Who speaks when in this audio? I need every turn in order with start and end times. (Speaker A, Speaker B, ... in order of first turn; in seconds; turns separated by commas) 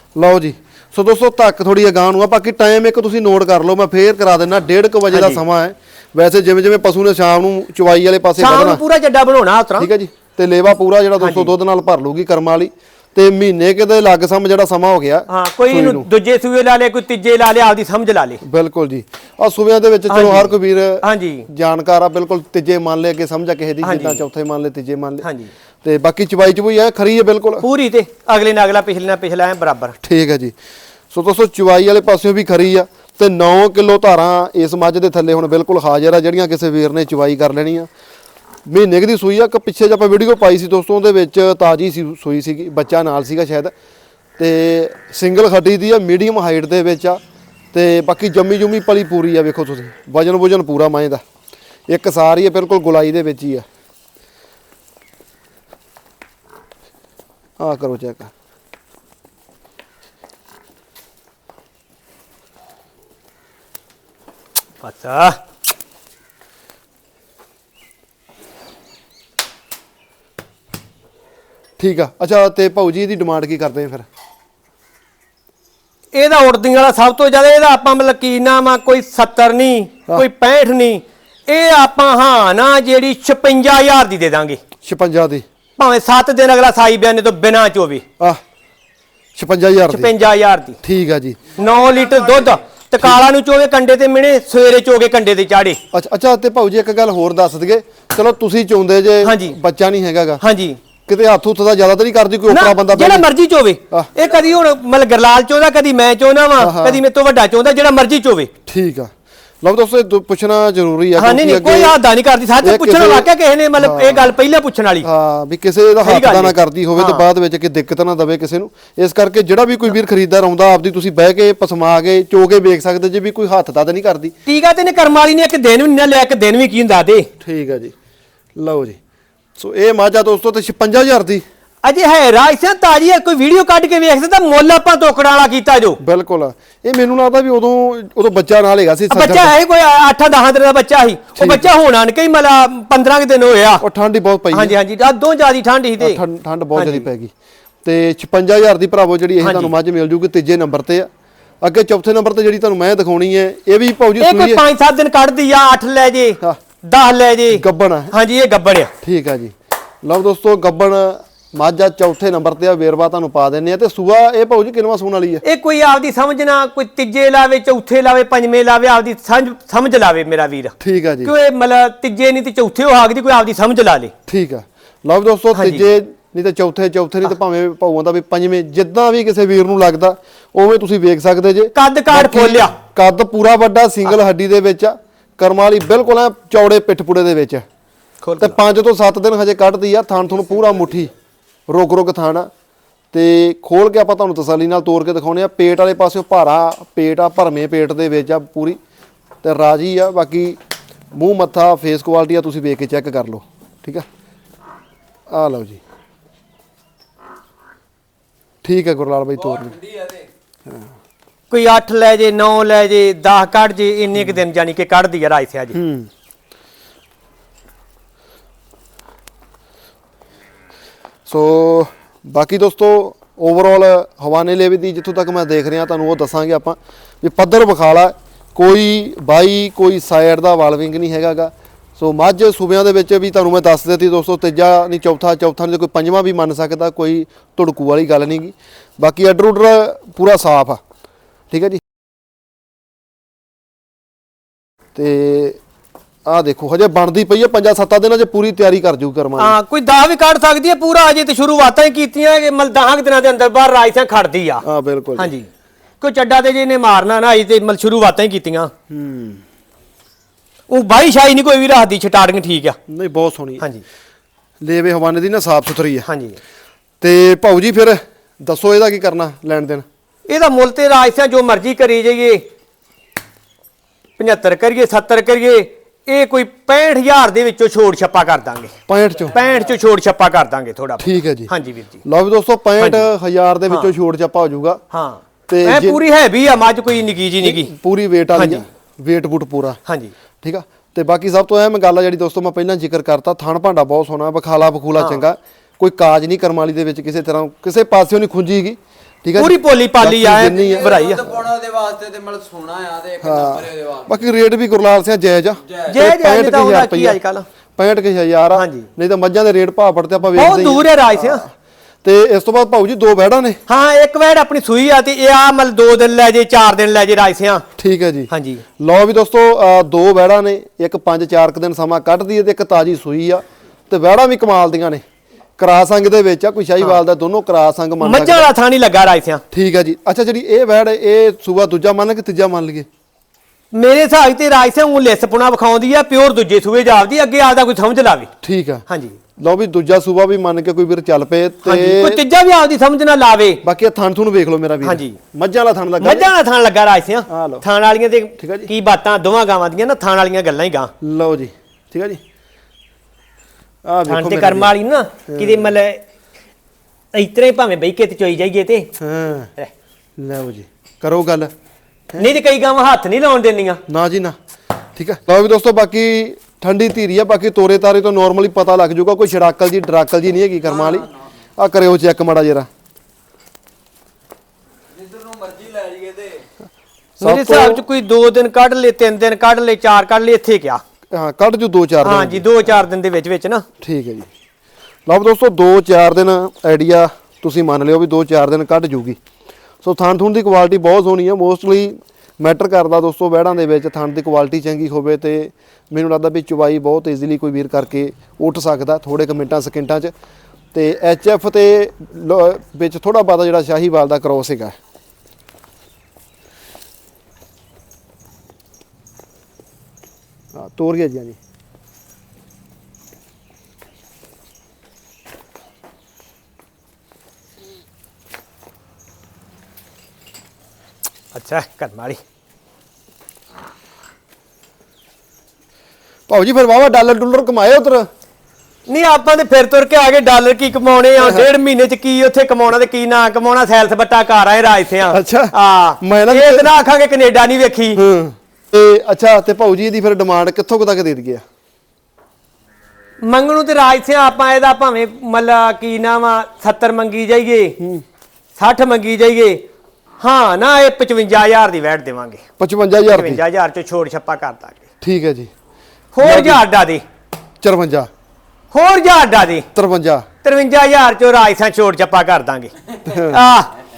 Speaker A: 0.1-8.8, Speaker B: 5.1-5.4, Speaker B: 8.4-9.9, Speaker A: 9.8-16.1, Speaker B: 11.2-11.5, Speaker B: 15.3-18.4, Speaker A: 18.4-25.2, Speaker B: 20.1-21.4, Speaker B: 23.8-24.2, Speaker B: 25.2-25.5, Speaker A: 25.8-27.6, Speaker B: 27.6-29.9, Speaker A: 30.0-30.5, Speaker A: 31.1-37.9, Speaker A: 38.6-43.7, Speaker A: 44.4-47.2, Speaker A: 47.7-51.2, Speaker A: 51.9-53.6, Speaker A: 57.6-58.3, Speaker B: 64.8-65.4, Speaker A: 71.8-74.0, Speaker B: 76.1-84.6, Speaker A: 84.8-85.4, Speaker B: 85.8-88.0, Speaker A: 89.3-90.1, Speaker B: 89.9-90.8, Speaker A: 90.8-91.4, Speaker B: 91.6-95.8, Speaker A: 95.9-100.4, Speaker B: 99.2-99.5, Speaker B: 100.4-100.8, Speaker A: 101.0-103.2, Speaker B: 102.5-108.5, Speaker A: 106.6-107.0, Speaker A: 108.7-109.1, Speaker A: 109.6-111.9, Speaker B: 111.2-115.1, Speaker A: 112.6-114.3, Speaker A: 115.0-124.3, Speaker B: 116.0-117.2, Speaker B: 124.5-127.3, Speaker A: 127.4-127.9, Speaker A: 128.6-129.0, Speaker A: 129.6-131.4, Speaker B: 131.8-136.0, Speaker A: 136.0-139.5, Speaker B: 139.1-143.8, Speaker A: 141.4-141.7, Speaker A: 143.8-144.8, Speaker B: 144.5-146.2, Speaker A: 146.0-147.3, Speaker B: 146.8-147.1, Speaker A: 147.8-151.1, Speaker B: 149.4-149.7, Speaker A: 151.6-154.6, Speaker B: 154.2-158.9, Speaker A: 157.5-158.1, Speaker A: 159.0-165.4, Speaker B: 165.4-174.1, Speaker A: 170.8-171.3, Speaker A: 174.3-187.6, Speaker B: 175.5-175.8, Speaker B: 181.7-182.7, Speaker B: 188.2-188.6, Speaker A: 188.4-191.1, Speaker A: 191.7-192.5, Speaker A: 193.1-198.8, Speaker A: 199.4-200.6, Speaker A: 201.1-204.1, Speaker A: 205.3-205.8, Speaker A: 208.6-209.8, Speaker C: 209.3-210.3, Speaker B: 211.5-215.8, Speaker A: 215.7-216.1, Speaker A: 221.3-240.8, Speaker A: 241.5-241.8, Speaker A: 244.9-245.6, Speaker A: 246.2-249.5, Speaker B: 249.4-254.6, Speaker A: 254.6-255.3, Speaker B: 255.2-255.5, Speaker B: 256.0-258.7, Speaker A: 258.9-259.4, Speaker B: 260.7-262.8, Speaker A: 262.9-263.6, Speaker A: 264.6-266.1, Speaker B: 266.1-266.4, Speaker A: 267.0-269.8, Speaker B: 270.3-272.4, Speaker B: 274.2-278.8, Speaker A: 278.9-279.4, Speaker B: 279.3-282.0, Speaker C: 279.4-279.7, Speaker A: 281.0-281.5, Speaker A: 282.0-284.8, Speaker B: 282.8-283.1, Speaker B: 284.9-287.7, Speaker A: 285.5-286.0, Speaker A: 287.4-289.8, Speaker B: 288.3-288.6, Speaker B: 289.9-290.1, Speaker A: 290.4-301.4, Speaker B: 295.0-295.2, Speaker B: 299.4-301.2, Speaker C: 300.5-304.2, Speaker A: 303.2-307.2, Speaker C: 305.6-306.0, Speaker B: 305.9-307.4, Speaker A: 307.8-311.5, Speaker B: 308.5-308.9, Speaker B: 310.4-311.4, Speaker A: 312.0-313.6, Speaker B: 313.7-317.6, Speaker A: 317.8-325.0, Speaker B: 318.3-318.6, Speaker A: 325.6-328.5, Speaker B: 328.0-329.4, Speaker A: 329.5-332.9, Speaker B: 333.7-338.3, Speaker A: 338.4-338.8, Speaker B: 338.9-339.2, Speaker A: 339.4-342.2, Speaker B: 341.6-343.6, Speaker A: 343.6-346.3, Speaker B: 344.8-345.2, Speaker B: 346.0-350.9, Speaker A: 347.3-347.6, Speaker A: 348.4-348.7, Speaker A: 351.0-352.2, Speaker A: 353.8-354.7, Speaker B: 354.1-356.0, Speaker A: 355.3-355.6, Speaker B: 357.1-358.9, Speaker A: 359.0-359.5, Speaker A: 360.2-361.5, Speaker B: 362.2-363.8, Speaker A: 363.9-364.4, Speaker A: 364.9-372.7, Speaker C: 370.6-371.3, Speaker C: 374.9-376.5, Speaker B: 377.2-380.8, Speaker A: 377.2-377.8, Speaker A: 381.1-382.7, Speaker B: 382.0-383.6, Speaker A: 383.8-384.3, Speaker A: 385.1-389.2, Speaker A: 389.8-400.1, Speaker A: 400.7-404.8, Speaker A: 410.5-411.4, Speaker B: 421.3-422.2, Speaker A: 426.3-428.1, Speaker B: 428.9-438.0, Speaker A: 435.1-436.7, Speaker A: 437.9-441.4, Speaker B: 443.2-447.8, Speaker A: 447.8-448.0, Speaker B: 448.6-449.6, Speaker B: 450.2-452.4, Speaker A: 452.6-453.4, Speaker B: 453.1-454.8, Speaker A: 455.0-455.5, Speaker B: 456.1-457.0, Speaker A: 456.2-456.6, Speaker A: 457.6-458.1, Speaker B: 458.7-459.6, Speaker A: 459.7-460.2, Speaker B: 460.4-462.7, Speaker A: 463.1-463.4, Speaker B: 463.3-463.7